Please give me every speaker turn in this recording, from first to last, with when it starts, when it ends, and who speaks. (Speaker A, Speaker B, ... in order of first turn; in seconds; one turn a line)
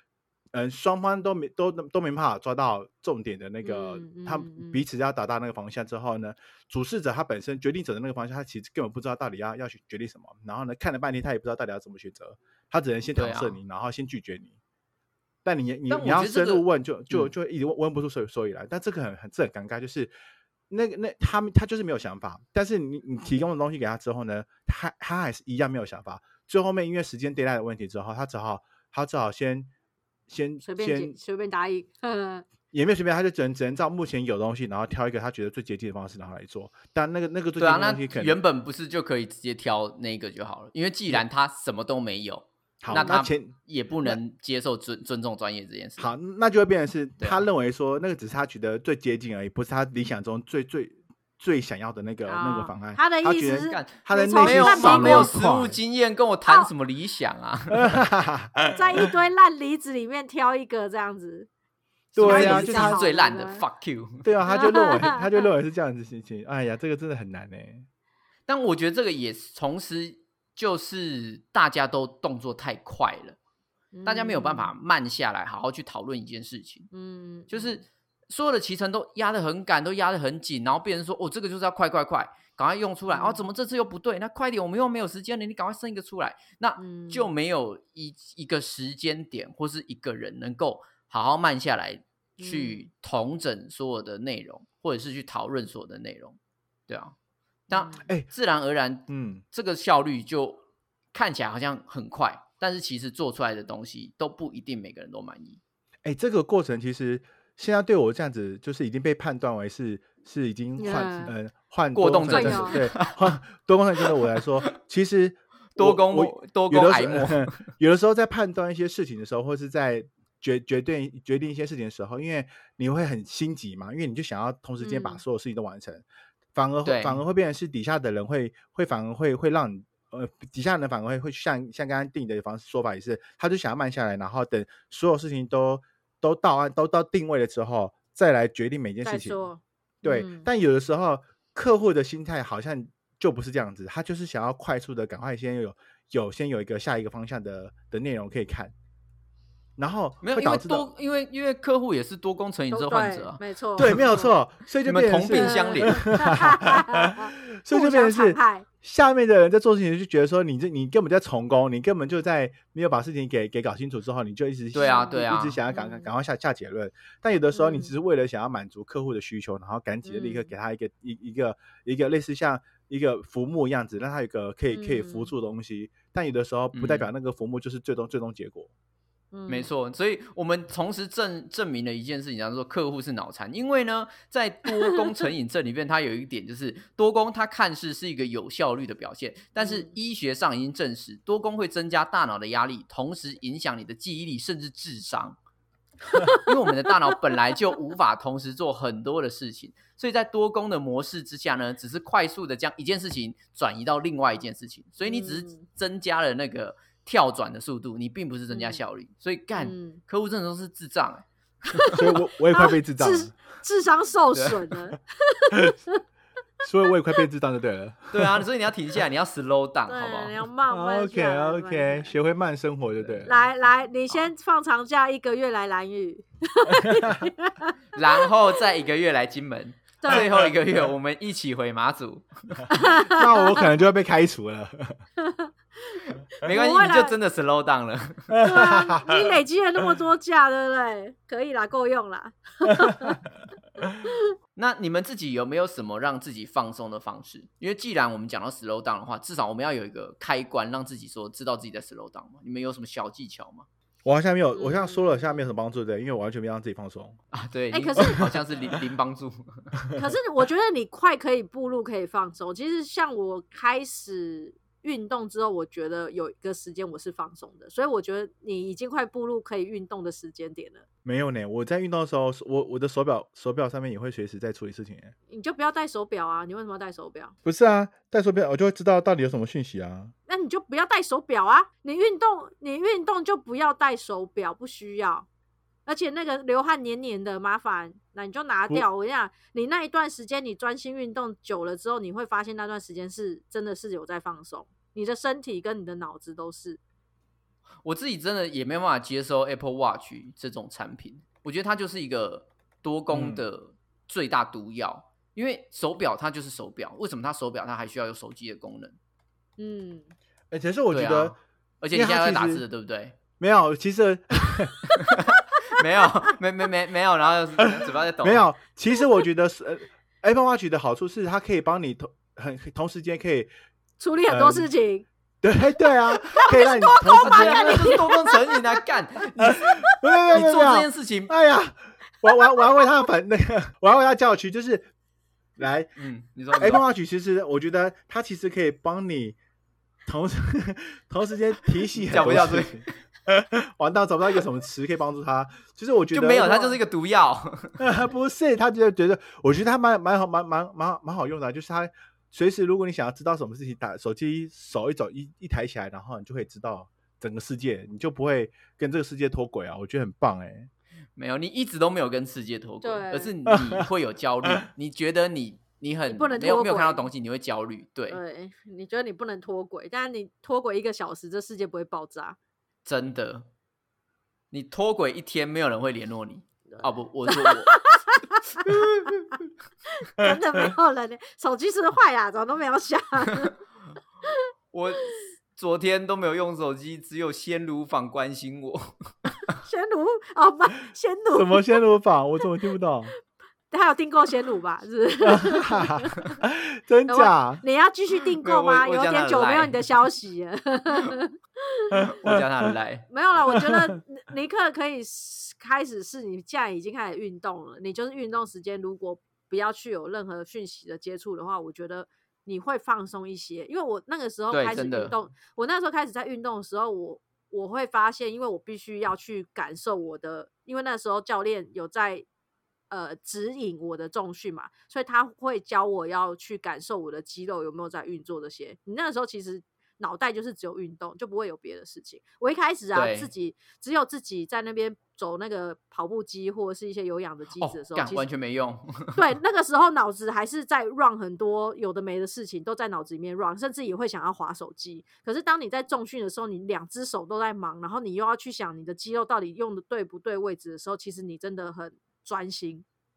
Speaker A: 0.5-14.6
Speaker B: 3.6-4.8
Speaker C: 13.2-13.6
Speaker A: 15.4-20.1
Speaker C: 15.9-17.3
Speaker A: 20.7-29.7
Speaker A: 30.3-31.2
Speaker B: 30.6-32.5
Speaker A: 32.7-38.4
Speaker C: 37.6-46.1
Speaker A: 42.8-44.2
Speaker A: 46.0-55.8
Speaker B: 52.3-55.3
Speaker C: 53.7-58.0
Speaker A: 57.7-59.1
Speaker B: 58.8-61.5
Speaker C: 62.1-64.3
Speaker A: 62.2-63.0
Speaker B: 62.2-63.6
Speaker A: 64.2-67.9
Speaker B: 64.5-65.4
Speaker C: 68.5-73.4
Speaker B: 73.9-74.7
Speaker C: 74.0-76.9
Speaker B: 76.9-77.7
Speaker C: 77.5-96.4
Speaker B: 83.1-83.4
Speaker B: 86.8-87.3
Speaker B: 92.4-92.8
Speaker C: 96.9-97.2
Speaker C: 97.7-100.6
Speaker B: 97.7-98.1
Speaker A: 99.1-99.4
Speaker C: 101.1-105.6
Speaker A: 106.0-139.4
Speaker B: 110.8-111.3
Speaker C: 111.9-113.4
Speaker B: 112.3-112.8
Speaker C: 115.8-117.6
Speaker B: 124.8-125.2
Speaker C: 126.8-127.2
Speaker B: 139.0-140.5
Speaker A: 140.0-148.7
Speaker A: 149.8-150.9
Speaker C: 150.2-153.4
Speaker B: 152.7-154.3
Speaker A: 153.8-178.7
Speaker C: 154.8-156.2
Speaker B: 155.3-158.7
Speaker C: 164.7-165.6
Speaker B: 164.8-165.2
Speaker B: 165.7-166.1
Speaker B: 167.5-167.9
Speaker B: 170.1-170.5
Speaker B: 174.7-175.3
Speaker C: 176.7-177.1
Speaker B: 179.3-179.7
Speaker C: 179.5-195.4
Speaker B: 189.6-189.9
Speaker B: 196.1-196.5
Speaker C: 196.3-211.9
Speaker B: 205.0-205.7
Speaker B: 208.5-208.8
Speaker B: 209.6-210.0
Speaker B: 211.7-216.0
Speaker A: 212.0-213.3
Speaker C: 214.3-214.6
Speaker A: 216.6-218.5
Speaker C: 218.1-220.4
Speaker B: 219.9-222.1
Speaker A: 220.7-223.3
Speaker C: 223.0-223.5
Speaker B: 223.3-227.8
Speaker A: 226.8-227.3
Speaker C: 227.9-232.7
Speaker B: 230.0-230.3
Speaker A: 230.1-230.5
Speaker B: 232.7-233.6
Speaker A: 233.0-235.0
Speaker B: 235.2-237.2
Speaker C: 236.4-238.4
Speaker A: 238.3-239.3
Speaker B: 238.4-243.2
Speaker A: 242.9-243.1
Speaker C: 244.6-253.7
Speaker A: 254.1-257.2
Speaker B: 254.6-255.4
Speaker C: 257.3-259.8
Speaker B: 257.7-258.3
Speaker A: 258.1-258.8
Speaker B: 259.9-270.8
Speaker A: 271.1-275.1
Speaker B: 275.3-277.3
Speaker A: 277.4-280.1
Speaker B: 280.3-285.3
Speaker B: 285.9-296.8
Speaker C: 297.8-309.0
Speaker A: 303.1-303.4
Speaker B: 309.6-310.1
Speaker A: 310.5-311.4
Speaker C: 310.9-313.2
Speaker A: 311.9-312.6
Speaker A: 313.4-314.8
Speaker C: 315.1-318.5
Speaker A: 317.7-323.5
Speaker B: 324.0-325.1
Speaker A: 324.3-324.7
Speaker A: 325.4-328.1
Speaker B: 326.2-328.6
Speaker C: 327.2-331.3
Speaker A: 329.4-334.9
Speaker A: 335.6-335.9
Speaker C: 336.0-336.8
Speaker A: 336.5-339.4
Speaker A: 340.1-346.8
Speaker C: 342.0-342.9
Speaker C: 346.1-347.8
Speaker A: 347.8-360.7
Speaker C: 361.2-368.2
Speaker B: 362.8-363.3
Speaker A: 363.5-363.9
Speaker B: 366.1-367.0
Speaker B: 368.1-372.4
Speaker C: 372.9-373.5
Speaker C: 374.5-377.8
Speaker B: 376.7-378.4
Speaker C: 378.6-379.3
Speaker B: 380.0-383.5
Speaker C: 384.7-389.5
Speaker B: 389.6-391.8
Speaker A: 391.3-393.1
Speaker B: 393.7-396.4
Speaker A: 395.3-397.6
Speaker B: 397.1-402.3
Speaker C: 398.4-399.9
Speaker C: 402.1-403.1
Speaker B: 403.1-422.2
Speaker A: 403.4-403.8
Speaker C: 414.5-415.1
Speaker B: 422.9-438.3
Speaker C: 432.9-433.3
Speaker C: 437.6-439.2
Speaker B: 439.1-452.9